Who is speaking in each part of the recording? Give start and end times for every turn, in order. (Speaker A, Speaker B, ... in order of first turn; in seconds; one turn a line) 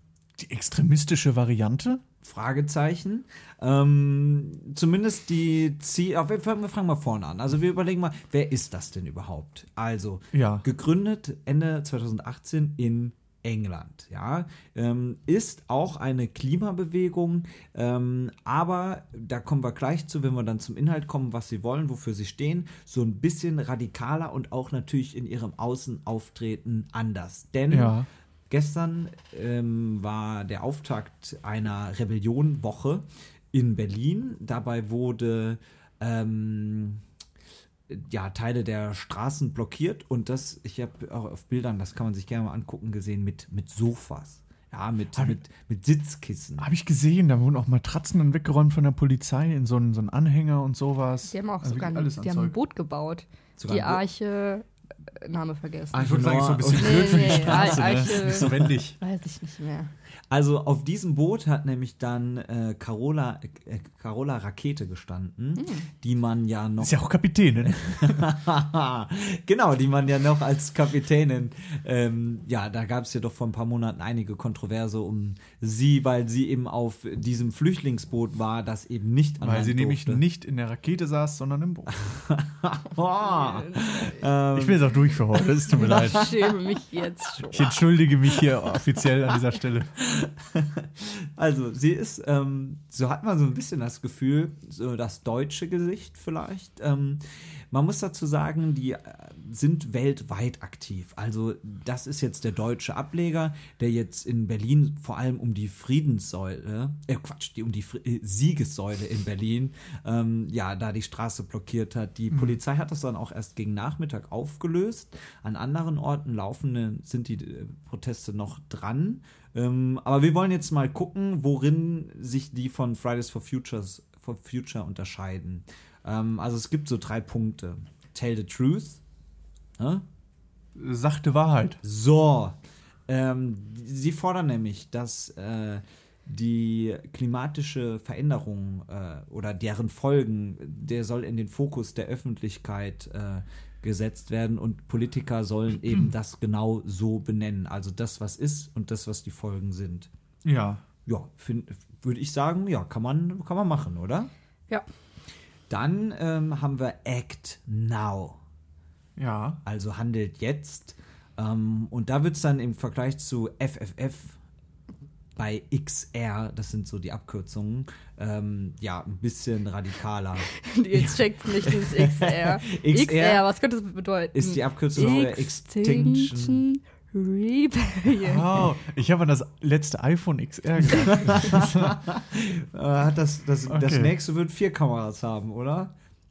Speaker A: 0.4-2.0
Speaker B: 2.2-37.0
Speaker A: 10.3-10.7
Speaker A: 27.7-28.1
Speaker B: 37.9-46.7
Speaker A: 46.6-52.6
Speaker C: 51.3-56.0
Speaker B: 53.6-54.0
Speaker B: 55.9-58.7
Speaker A: 56.0-59.0
Speaker C: 56.6-59.9
Speaker B: 60.3-67.0
Speaker C: 65.6-65.9
Speaker A: 66.8-68.3
Speaker B: 67.7-80.2
Speaker A: 79.4-82.0
Speaker B: 81.9-84.9
Speaker C: 83.1-84.3
Speaker A: 84.5-86.4
Speaker C: 85.7-87.9
Speaker B: 85.8-86.2
Speaker A: 87.4-89.9
Speaker B: 90.0-129.0
Speaker A: 112.3-112.6
Speaker B: 129.8-130.1
Speaker A: 130.8-131.8
Speaker B: 131.8-132.6
Speaker B: 133.1-150.1
Speaker A: 150.4-150.8
Speaker B: 151.1-154.3
Speaker B: 155.7-158.4
Speaker A: 159.2-159.6
Speaker B: 159.7-164.4
Speaker B: 165.4-173.4
Speaker C: 170.5-178.7
Speaker B: 174.3-176.6
Speaker A: 178.2-182.0
Speaker B: 180.9-185.9
Speaker A: 183.7-184.1